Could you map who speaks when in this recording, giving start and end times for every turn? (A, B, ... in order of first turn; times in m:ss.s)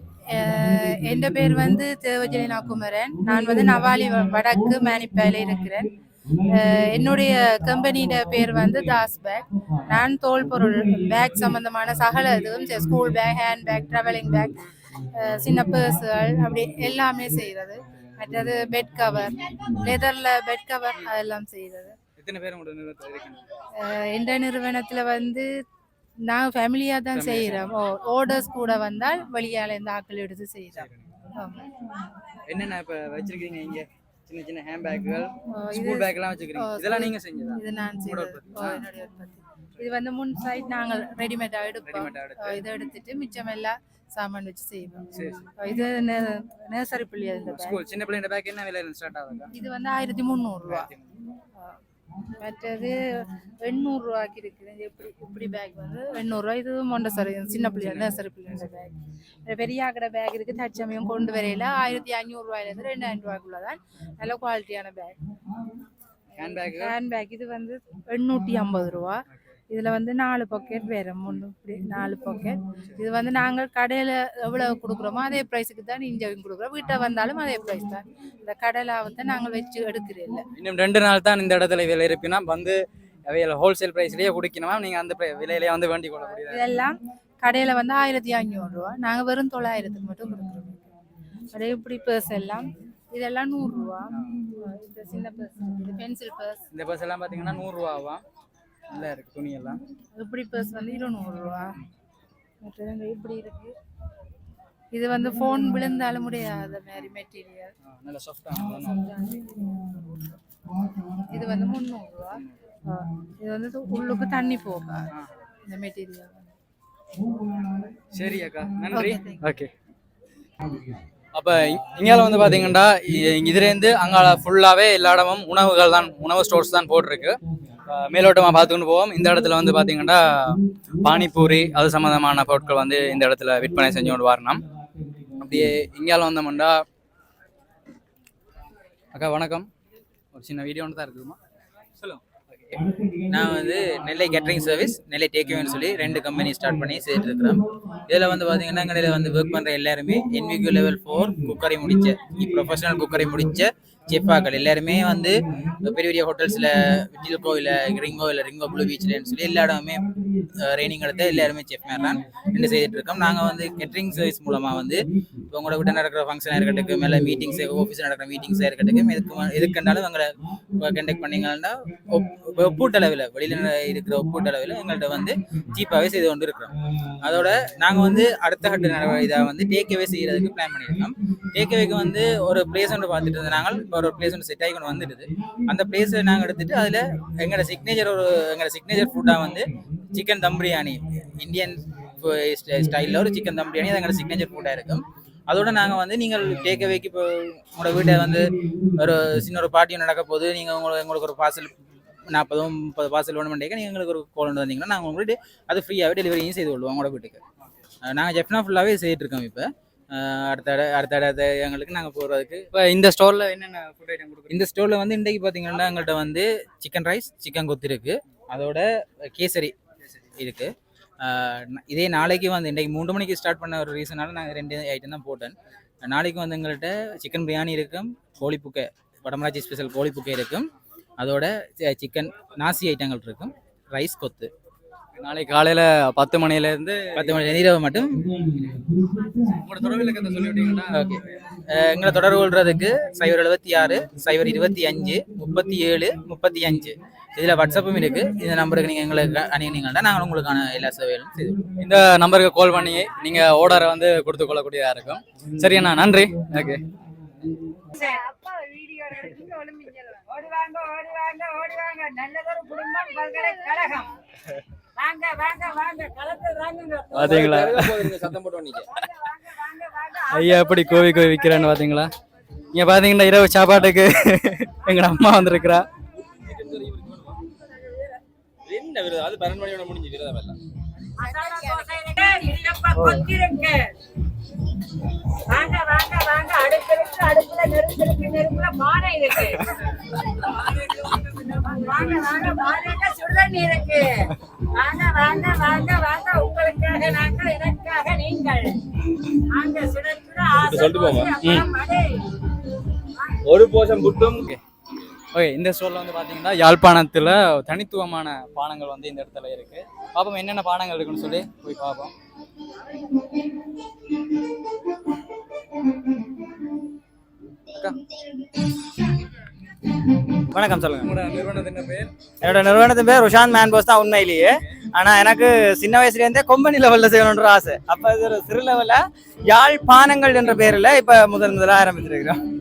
0:00.3-0:05.9 A
0:06.5-0:14.6 A
0:15.2-0:22.0 A
0:22.2-0:23.4 B
0:23.8-0:25.5 A
0:26.3-0:31.7 A
0:27.2-0:27.7 B
0:30.8-0:31.0 B
0:32.5-0:38.8 B
0:35.6-0:45.1 A
0:41.9-0:42.6 B
0:45.1-0:45.5 B
0:45.6-0:47.8 A
0:47.5-0:49.5 B
0:49.5-0:50.9 A
0:50.7-0:51.1 B
0:52.4-0:53.0 A
0:53.6-0:58.9 A
0:57.8-0:58.1 B
0:59.5-1:05.2 A
1:06.4-1:06.9 B
1:06.4-1:20.4 A
1:20.6-1:26.6 B
1:26.4-1:30.8 A
1:31.5-1:36.6 A
1:36.7-1:38.2 B
1:38.9-1:39.8 B
1:40.2-1:41.7 A
1:42.6-1:43.7 A
1:44.9-1:47.7 A
1:47.8-1:49.0 B
1:49.1-1:49.4 A
1:51.3-1:55.0 A
1:55.7-1:56.5 A
1:58.1-1:59.7 B
1:58.9-1:59.4 A
2:01.3-2:07.4 B
2:07.9-2:10.2 B
2:11.0-2:14.6 B
2:15.4-2:16.8 B
2:19.1-2:19.7 B
2:20.3-2:21.4 B
2:22.0-2:22.6 B
2:23.3-2:40.0 C
2:40.6-3:18.4 C
3:19.0-3:21.7 C
3:22.3-3:27.4 C
3:28.0-3:32.7 C
3:32.7-3:34.7 B
3:34.5-3:39.7 C
3:40.4-3:45.5 C
3:46.0-3:50.7 C
3:51.2-3:54.5 C
3:55.2-3:57.4 B
3:57.2-3:58.2 C
3:59.6-4:01.4 B
4:01.0-4:11.6 C
4:11.8-4:16.8 B
4:18.0-4:24.1 D
4:22.8-4:23.4 E
4:25.0-4:27.1 E
4:27.1-4:28.9 F
4:27.1-4:28.2 B
4:29.5-4:30.8 D
4:30.3-4:32.1 B
4:32.7-4:35.8 B
4:36.4-4:37.4 F
4:38.7-4:40.6 F
4:41.2-4:43.9 E
4:43.0-4:43.2 B
4:45.5-4:49.8 E
4:50.4-4:58.7 E
4:59.5-5:02.2 E
5:00.6-5:01.6 F
5:03.5-5:04.5 F
5:05.3-5:12.1 B
5:20.5-5:21.1 G
5:21.0-5:22.1 B
5:22.4-5:32.4 G